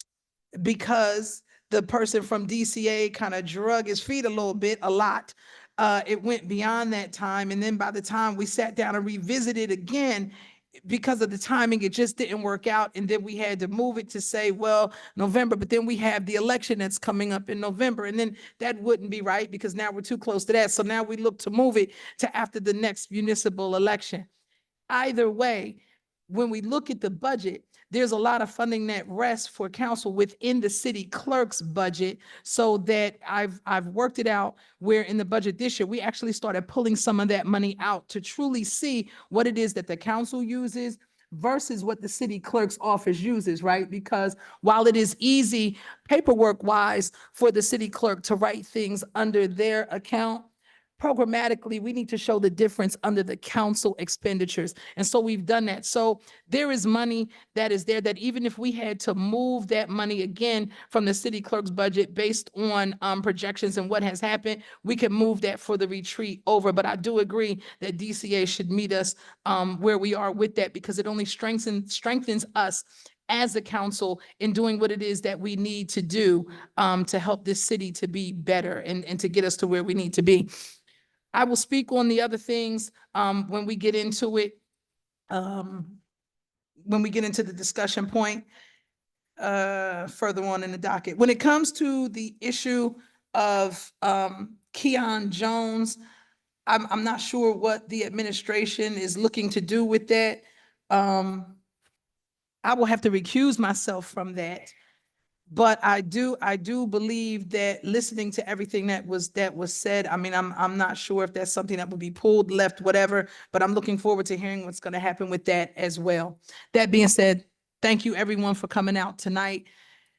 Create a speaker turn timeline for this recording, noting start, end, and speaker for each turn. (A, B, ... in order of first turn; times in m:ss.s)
0:00.6-0:10.3 A
0:10.9-0:24.3 A
0:24.9-1:20.5 A
1:21.3-1:24.6 A
1:25.3-1:26.0 A
1:26.8-1:28.5 A
1:29.4-1:36.0 A
1:36.7-1:41.6 A
1:42.6-1:44.8 A
1:45.5-1:59.7 A